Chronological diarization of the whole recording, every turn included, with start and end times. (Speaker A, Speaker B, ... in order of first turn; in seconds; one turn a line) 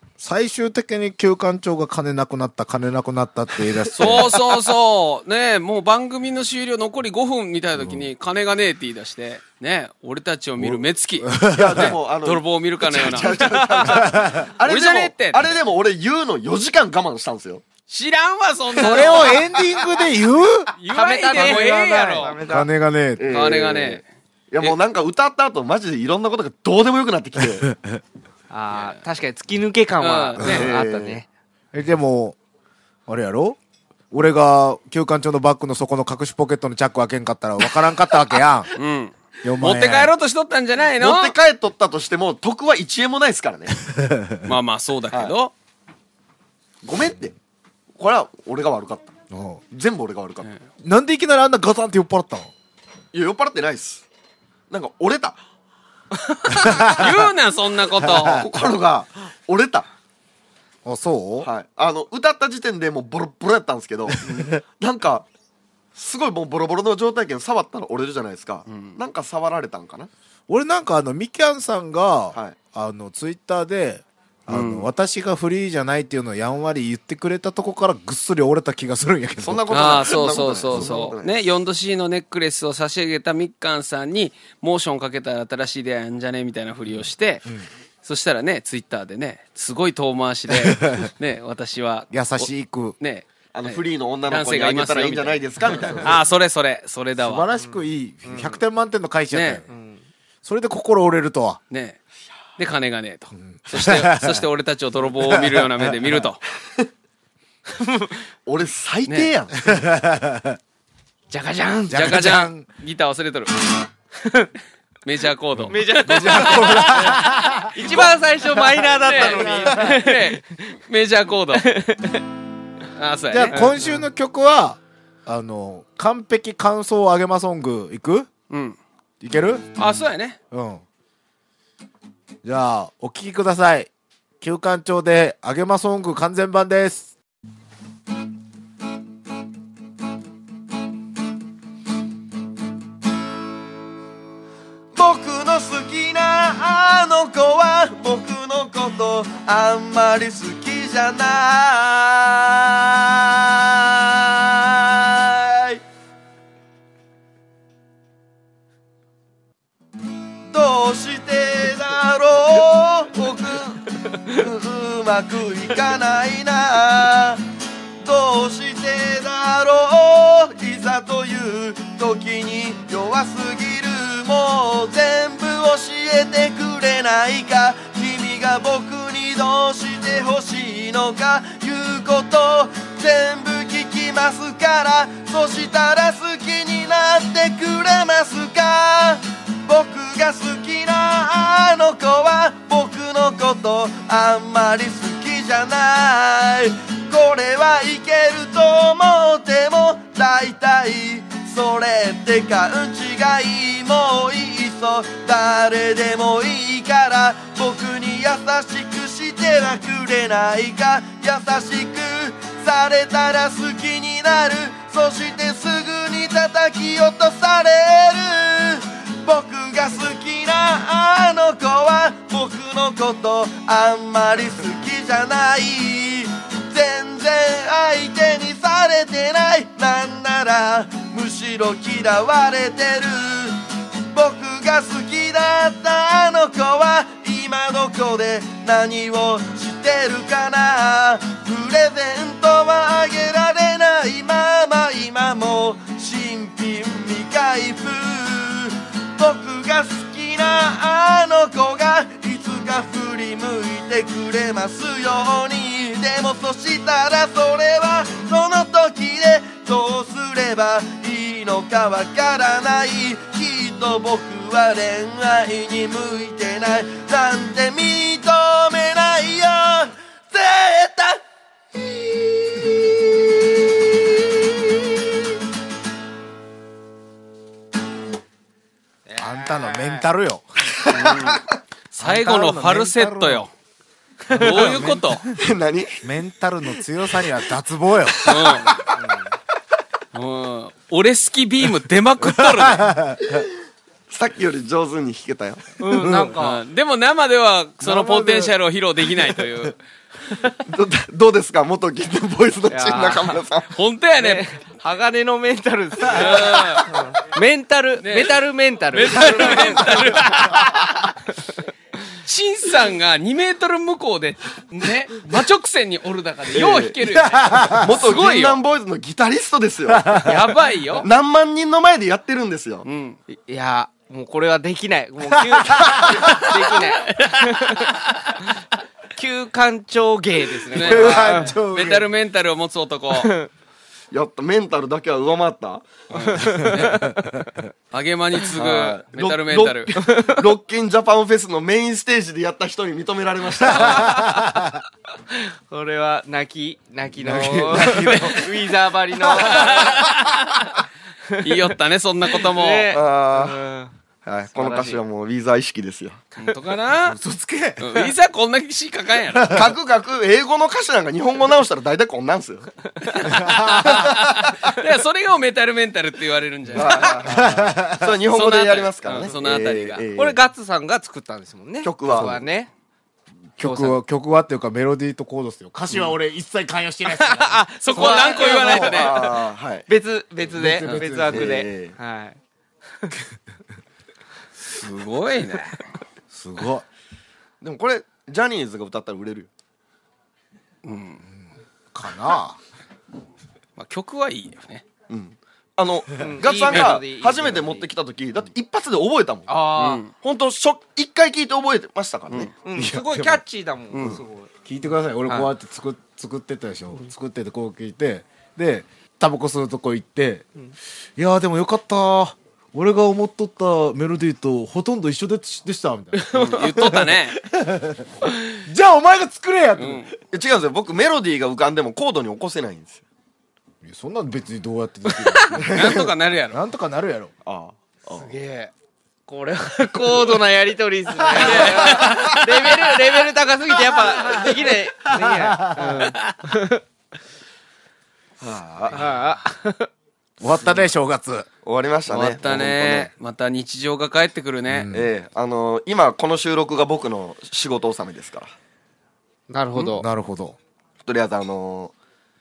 Speaker A: 0.2-4.6
Speaker B: 4.0-15.6
Speaker A: 7.8-8.1
Speaker A: 10.6-11.9
Speaker C: 11.5-17.6
Speaker A: 13.9-14.5
Speaker B: 17.9-19.5
Speaker C: 18.8-19.3
Speaker A: 18.8-20.7
Speaker B: 20.8-22.4
Speaker D: 20.9-22.7
Speaker A: 21.3-21.7
Speaker A: 22.2-23.4
Speaker C: 23.2-27.7
Speaker B: 23.3-24.0
Speaker A: 27.6-28.0
Speaker D: 28.5-31.3
Speaker B: 28.7-29.0
Speaker B: 30.0-30.7
Speaker C: 30.4-31.2
Speaker A: 31.7-32.4
Speaker A: 33.1-33.6
Speaker A: 34.1-38.7
Speaker B: 38.7-41.3
Speaker A: 39.4-40.1
Speaker C: 41.0-43.8
Speaker A: 43.8-44.5
Speaker B: 44.4-45.5
Speaker C: 46.8-47.4
Speaker C: 48.0-49.1
Speaker A: 49.3-49.6
Speaker C: 49.7-50.5
Speaker A: 50.8-52.5
Speaker C: 53.1-54.0
Speaker C: 54.7-55.4
Speaker B: 56.4-58.5
Speaker A: 56.5-57.3
Speaker A: 58.0-58.5
Speaker C: 58.3-59.9
Speaker A: 60.8-61.5
Speaker C: 61.4-65.2
Speaker C: 65.9-70.1
Speaker B: 68.7-69.0
Speaker A: 70.5-80.1
Speaker B: 74.5-74.9
Speaker C: 79.4-81.4
Speaker B: 79.7-87.4
Speaker A: 80.7-81.1
Speaker B: 88.0-92.5
Speaker A: 90.5-91.1
Speaker A: 92.1-93.0
Speaker B: 93.0-97.5
Speaker C: 93.5-96.2
Speaker A: 97.2-99.6
Speaker D: 97.6-98.6
Speaker B: 99.3-99.6
Speaker D: 99.7-100.0
Speaker A: 100.4-101.6
Speaker B: 101.7-102.0
Speaker B: 102.6-106.4
Speaker A: 103.5-104.4
Speaker A: 105.2-106.1
Speaker C: 106.6-106.9
Speaker D: 107.8-108.1
Speaker C: 108.4-109.7
Speaker B: 109.1-109.3
Speaker A: 109.6-110.6
Speaker D: 111.3-112.1
Speaker A: 111.9-112.7
Speaker B: 111.9-113.6
Speaker D: 114.2-114.5
Speaker B: 115.0-121.7
Speaker A: 115.5-118.0
Speaker D: 115.7-120.4
Speaker A: 119.2-120.0
Speaker D: 121.6-122.2
Speaker B: 122.9-123.8
Speaker A: 123.3-128.3
Speaker B: 128.5-128.8
Speaker A: 129.2-129.7
Speaker B: 129.8-130.4
Speaker A: 130.5-130.8
Speaker A: 132.4-133.9
Speaker A: 134.4-137.1
Speaker C: 144.9-155.8
Speaker C: 160.5-167.4
Speaker C: 168.0-271.2
Speaker C: 271.8-274.9
Speaker D: 279.1-280.0
Speaker A: 279.2-280.4
Speaker C: 280.8-281.4
Speaker B: 280.9-283.5
Speaker A: 281.9-283.4
Speaker A: 284.3-285.3
Speaker B: 284.3-285.3
Speaker C: 285.3-286.1
Speaker A: 286.0-288.3
Speaker C: 288.1-289.0
Speaker B: 288.2-288.8
Speaker D: 288.9-289.3
Speaker B: 290.1-292.9
Speaker A: 292.2-293.4
Speaker C: 294.1-295.7
Speaker D: 295.8-296.6
Speaker A: 295.9-296.4
Speaker B: 296.4-299.8
Speaker A: 297.8-298.5
Speaker C: 300.6-303.7
Speaker D: 302.7-303.4
Speaker B: 303.7-304.5
Speaker D: 304.2-310.8
Speaker B: 306.0-306.9
Speaker B: 308.0-308.4
Speaker B: 308.9-311.0
Speaker B: 312.1-318.6
Speaker C: 316.5-317.0
Speaker A: 317.2-317.9
Speaker C: 317.7-320.3
Speaker A: 319.9-320.4
Speaker B: 320.2-321.1
Speaker C: 321.0-322.9
Speaker B: 322.8-323.2
Speaker D: 323.3-327.9
Speaker A: 325.9-326.5
Speaker B: 326.2-328.4
Speaker D: 329.1-331.5
Speaker B: 330.7-333.3
Speaker A: 330.8-332.1
Speaker D: 333.1-333.5
Speaker C: 334.1-336.0
Speaker B: 336.1-337.1
Speaker D: 336.3-337.2
Speaker A: 336.5-337.5
Speaker B: 337.9-339.9
Speaker C: 338.5-344.2
Speaker D: 340.0-340.4
Speaker B: 343.7-344.3
Speaker A: 343.7-344.8
Speaker D: 345.3-350.1
Speaker A: 347.2-348.5
Speaker A: 349.2-349.7
Speaker B: 349.3-350.8
Speaker D: 351.3-351.7
Speaker B: 351.4-353.0
Speaker D: 352.3-353.9
Speaker C: 352.9-353.6
Speaker C: 354.2-356.2
Speaker D: 354.5-355.0
Speaker B: 356.4-357.2
Speaker A: 357.0-358.1
Speaker B: 357.8-359.6
Speaker A: 359.3-359.7
Speaker C: 359.5-362.7
Speaker B: 363.0-367.3
Speaker A: 363.3-364.1
Speaker C: 364.0-364.8
Speaker C: 366.7-370.4
Speaker A: 367.2-368.2
Speaker B: 368.3-370.0
Speaker D: 370.1-372.7
Speaker C: 371.8-372.4
Speaker A: 372.1-372.4
Speaker A: 373.6-377.6
Speaker D: 373.6-374.0
Speaker D: 377.1-379.2
Speaker B: 377.8-379.4
Speaker C: 377.9-379.9
Speaker D: 379.9-382.4
Speaker A: 380.5-381.6
Speaker C: 381.3-381.9
Speaker B: 384.7-385.8
Speaker A: 386.3-386.8
Speaker C: 387.6-389.5
Speaker B: 390.8-391.2
Speaker A: 391.2-392.6
Speaker B: 393.8-394.8
Speaker C: 395.1-399.5
Speaker D: 396.2-397.9
Speaker B: 396.7-397.0
Speaker D: 399.5-400.0
Speaker B: 399.8-400.1
Speaker C: 400.1-402.5
Speaker D: 402.6-404.5
Speaker A: 402.7-403.4
Speaker B: 403.9-404.2
Speaker A: 404.6-410.4
Speaker A: 411.2-420.1
Speaker B: 416.3-417.4
Speaker D: 416.4-416.7
Speaker B: 419.8-420.1
Speaker C: 420.3-423.0
Speaker A: 423.8-427.3
Speaker D: 425.1-425.6
Speaker C: 425.6-426.1
Speaker B: 425.6-426.6
Speaker C: 427.4-428.3
Speaker D: 428.1-428.7
Speaker D: 429.3-436.8
Speaker C: 431.3-432.5
Speaker B: 431.4-432.9
Speaker A: 434.2-436.1
Speaker C: 438.4-439.1
Speaker D: 438.9-439.9
Speaker A: 440.4-441.5
Speaker C: 441.6-443.1
Speaker B: 442.1-444.9
Speaker A: 444.7-445.1
Speaker C: 444.9-448.5
Speaker D: 449.5-450.1
Speaker A: 449.9-450.6
Speaker C: 451.0-451.9